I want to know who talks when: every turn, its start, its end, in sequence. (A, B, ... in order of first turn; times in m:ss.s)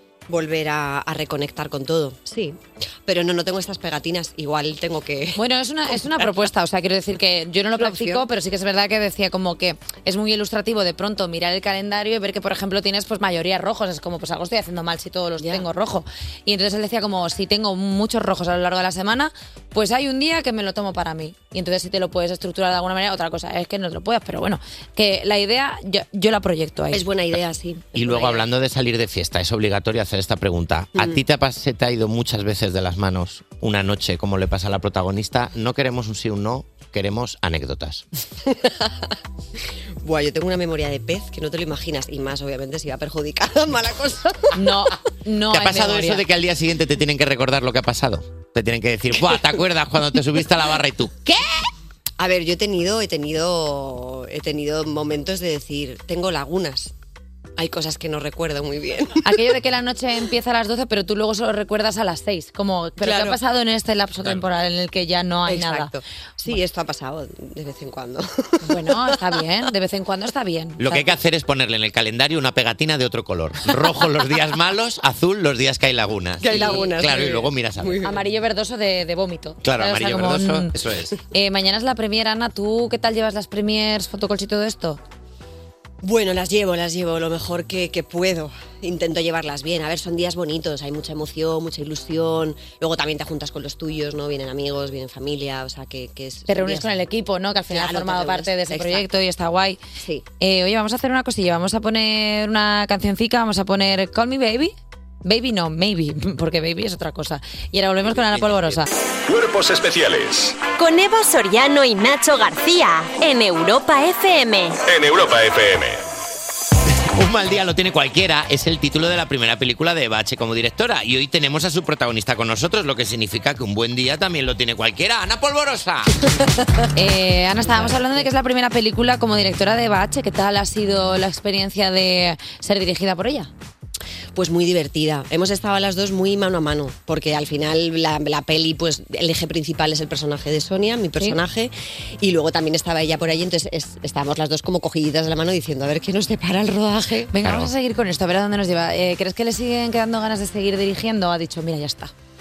0:00.3-0:05.4 A
0:05.4-0:27.1 B
0:05.9-0:06.2 A
0:07.8-0:08.3 A
0:15.4-0:15.7 A
0:26.9-0:28.4 A
0:28.0-0:38.0 C
0:31.0-0:31.2 A
0:38.5-0:38.9 A
0:40.0-0:44.7 A
0:44.5-0:46.2 B
0:45.5-0:51.2 C
0:52.2-0:56.9 A
0:57.6-0:59.4 A
0:59.2-1:05.9 B
1:03.0-1:03.4 A
1:05.5-1:09.2 A
1:08.6-1:11.1 B
1:10.8-1:18.0 C
1:16.4-1:18.2 A
1:16.5-1:16.9 B
1:18.0-1:20.7 B
1:19.6-1:21.2 C
1:21.3-1:25.0 B
1:26.0-1:37.0 A
1:36.5-1:39.8 B
1:37.7-1:39.0 A
1:40.4-1:48.9 B
1:48.1-1:48.8 C
1:49.3-1:50.6 D
1:50.8-1:54.8 E
1:54.8-1:56.0 D
1:57.1-2:06.2 C
2:07.0-2:13.5 B
2:07.6-2:08.3 A
2:14.4-2:27.3 A
2:27.3-2:32.1 B
2:27.4-2:27.7 C